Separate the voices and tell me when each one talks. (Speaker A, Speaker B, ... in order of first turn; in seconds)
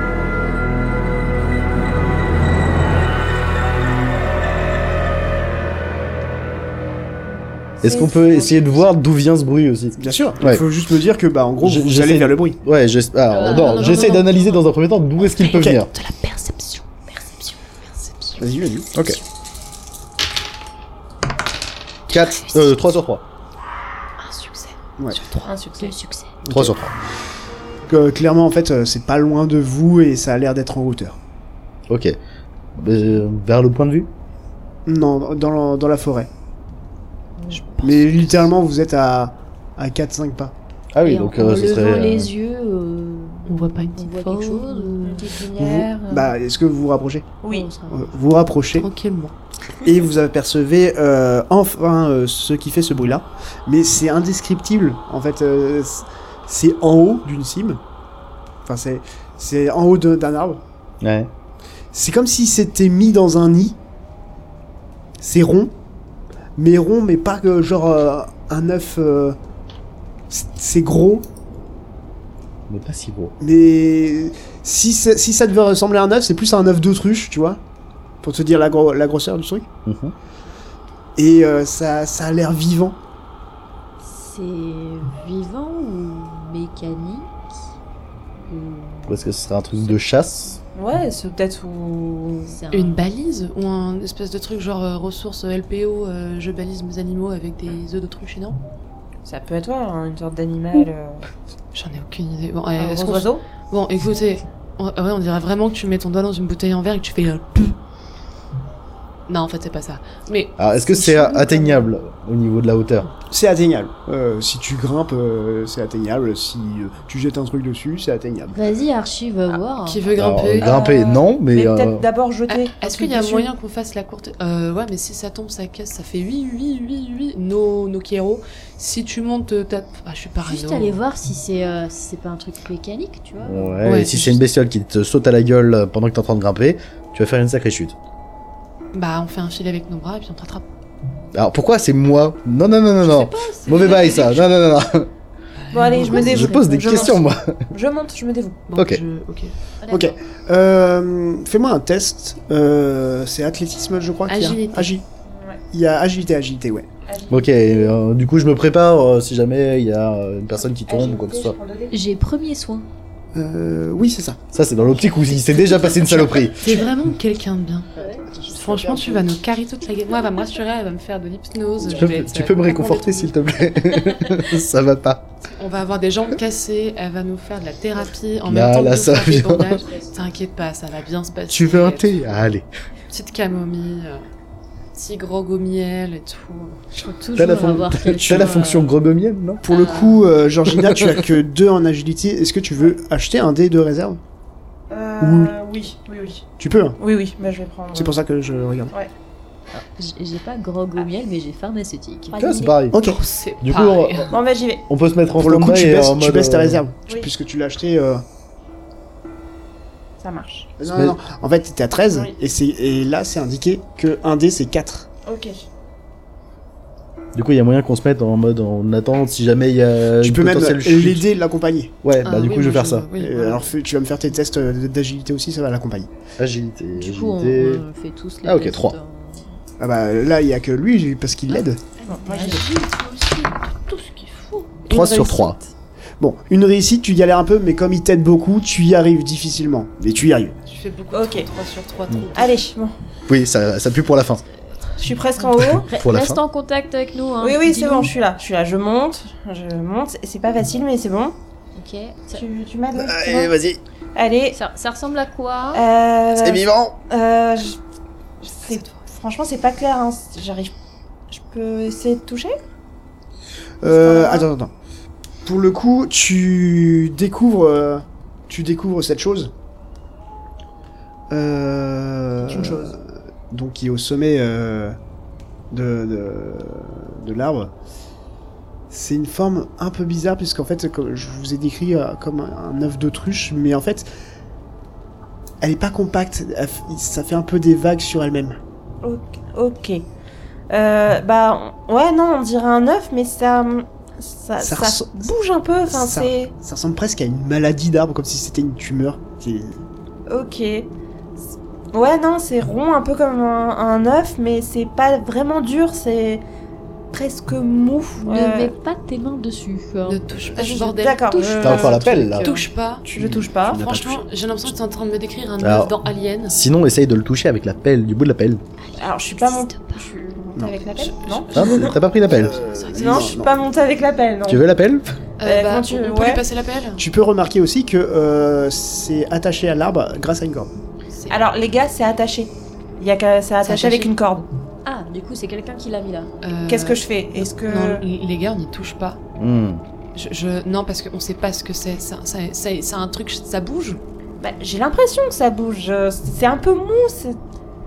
Speaker A: 7.8-8.8, 25.1-25.9, 45.0-46.3, 47.4-47.7, 90.7-92.6, 99.2-101.2, 102.8-103.4, 120.6-123.5, 143.7-144.2, 145.7-148.6, 155.3-155.6, 157.1-157.9, 160.8-161.9, 194.9-196.4, 197.0-198.2, 202.3-202.8, 204.3-204.8, 210.2-210.7, 215.2-215.6, 232.1-232.6, 234.8-235.7, 241.1-241.5, 242.3-242.9, 245.0-245.9, 247.4-251.3, 252.3-253.5, 254.1-254.6, 255.7-257.8, 258.4-260.7, 261.3-262.6, 263.8-264.5, 272.4-272.9, 289.0-290.0, 290.7-296.5, 300.3-300.9, 301.9-306.4, 307.1-308.7, 310.6-313.8, 319.0-321.8, 322.9-324.6, 325.4-326.4, 331.3-334.5, 336.7-338.0, 344.4-347.4
Speaker B: 7.8-10.6, 11.6-15.9, 18.9-19.2, 22.1-23.2, 26.5-26.9, 31.9-32.1, 32.8-34.1, 40.9-42.3, 61.0-61.3, 72.7-73.3, 79.8-80.1, 89.1-90.6, 110.6-113.1, 120.2-122.0, 133.4-137.9, 141.3-145.1, 146.0-147.7, 148.8-149.0, 157.3-161.6, 164.5-166.8, 171.9-175.2, 178.4-179.8, 181.5-182.7, 187.3-189.6, 190.7-191.4, 202.4-203.0, 203.6-204.3, 204.9-206.8, 210.9-211.2, 217.3-221.2, 222.0-223.1, 226.4-227.8, 228.4-228.9, 234.9-235.6, 243.3-244.4, 245.6-246.4, 252.9-253.8, 256.4-257.0, 311.6-312.5, 315.6-315.9, 316.5-318.6, 321.5-322.6, 324.5-325.1, 339.4-339.8
Speaker C: 10.0-12.6, 15.5-15.8, 18.4-18.9, 26.4-26.8, 27.9-31.2, 34.9-36.3, 37.8-40.5, 45.5-47.3, 47.9-48.9, 49.8-57.8, 58.6-60.6, 61.9-63.8, 65.2-65.7, 66.6-69.4, 70.3-71.3, 73.4-77.6, 78.2-79.7, 81.2-83.0, 113.3-118.6, 149.9-155.0, 155.7-156.9, 163.3-164.4, 168.2-169.3, 189.6-194.2, 195.2-195.5, 196.6-197.0, 197.9-198.9, 202.9-203.2, 205.3-208.2, 210.8-215.1, 220.2-221.9, 223.1-226.1, 229.8-231.8, 236.2-240.6, 263.8-264.7, 265.4-269.5, 271.3-275.0, 275.7-277.7, 278.9-284.1, 285.6-288.6, 294.6-295.3, 295.9-299.8, 313.0-314.7, 320.6-320.9, 321.5-323.6, 327.0-330.8
Speaker D: 13.3-14.5, 25.7-26.3, 41.0-45.3, 47.5-48.1, 84.0-87.3, 88.4-89.2, 92.5-93.0, 118.5-120.0, 130.4-133.8, 143.6-144.1, 149.8-150.1, 161.9-162.9, 186.9-189.0, 199.7-202.3, 226.9-229.5, 232.2-232.6, 245.5-248.1, 251.8-252.4, 254.5-255.8, 308.2-310.2, 318.8-320.1, 334.8-336.3
Speaker E: 13.4-14.4, 15.2-18.4, 22.1-22.8, 24.2-24.7, 43.5-45.1, 48.7-49.4, 92.7-98.6, 101.7-107.8, 109.3-111.9, 119.8-120.7, 122.5-130.9, 133.8-134.4, 138.9-140.6, 143.2-144.3, 145.6-147.1, 148.7-149.5, 154.3-154.9, 165.5-167.9, 168.5-173.3, 175.5-182.3, 183.1-184.2, 184.9-186.8, 202.9-204.3, 222.2-223.7, 232.0-234.8, 240.7-242.6, 258.6-258.9, 310.1-313.1, 313.7-316.6, 321.2-321.9, 322.5-323.3, 325.4-327.0, 331.1-331.4, 333.6-334.1, 336.4-339.2, 340.1-344.0